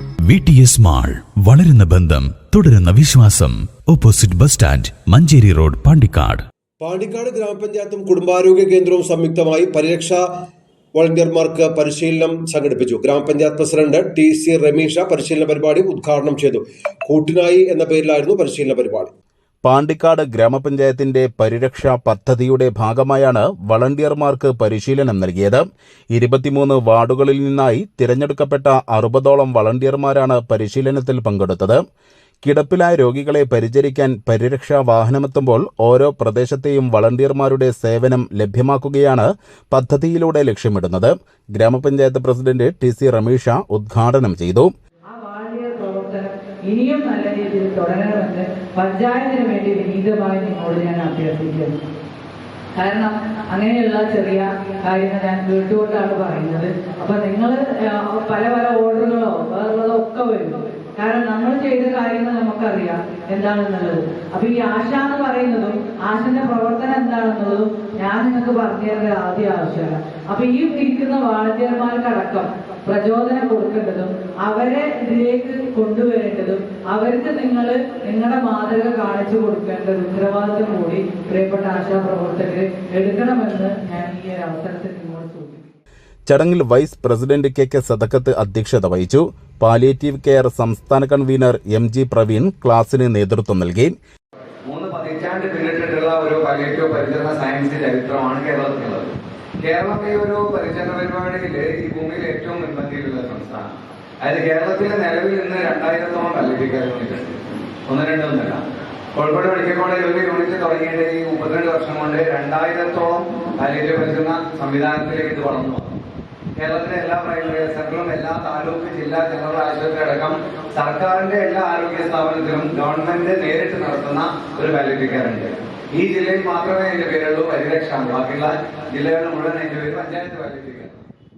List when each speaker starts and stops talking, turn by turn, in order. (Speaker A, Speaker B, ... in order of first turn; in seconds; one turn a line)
Speaker A: 0.3-6.4
Speaker B: 6.8-10.2
Speaker B: 10.9-19.1
Speaker C: 19.6-31.8
Speaker C: 32.4-44.7
Speaker D: 45.1-51.7
Speaker D: 52.7-85.7
Speaker C: 86.3-93.9
Speaker E: 94.7-103.7
Speaker E: 104.2-108.6
Speaker E: 109.1-116.0
Speaker E: 116.6-131.0